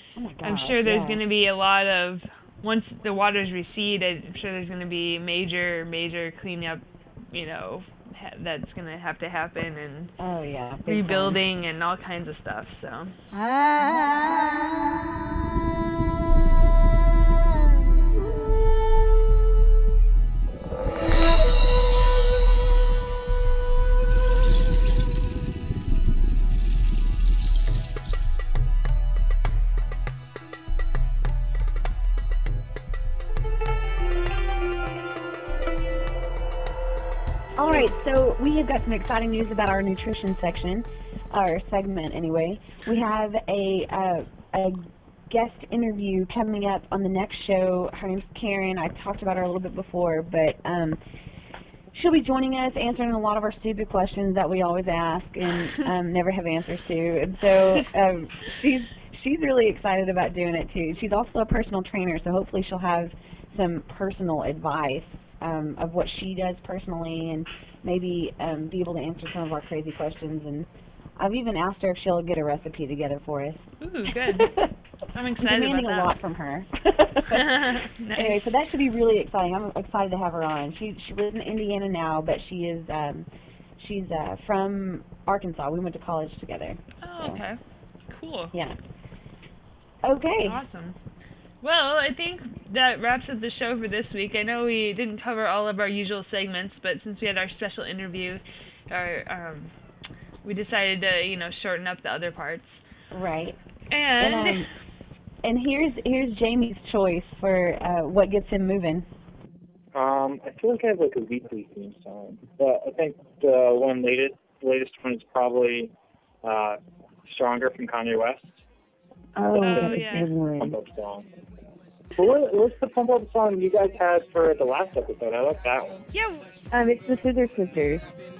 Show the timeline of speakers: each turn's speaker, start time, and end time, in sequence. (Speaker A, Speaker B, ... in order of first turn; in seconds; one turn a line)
Speaker A: 0.2-1.2
Speaker B: 0.4-10.1
Speaker A: 10.2-11.4
Speaker B: 10.9-13.2
Speaker A: 37.6-51.0
Speaker A: 51.9-73.7
Speaker B: 57.6-57.8
Speaker B: 73.8-74.5
Speaker A: 74.2-74.7
Speaker B: 75.1-76.1
Speaker A: 75.4-83.3
Speaker B: 77.3-78.5
Speaker A: 83.8-87.4
Speaker B: 87.0-87.6
Speaker B: 88.1-88.5
Speaker A: 90.0-90.6
Speaker B: 90.5-91.0
Speaker B: 91.6-99.7
Speaker B: 100.5-102.8
Speaker A: 103.1-103.6
Speaker B: 103.9-104.7
Speaker A: 104.2-104.7
Speaker A: 105.4-109.0
Speaker C: 109.9-115.9
Speaker C: 116.4-118.6
Speaker D: 119.4-120.8
Speaker B: 119.5-120.3
Speaker C: 119.7-120.0
Speaker C: 120.6-121.3
Speaker C: 122.2-126.0
Speaker B: 126.1-126.5
Speaker D: 126.7-128.0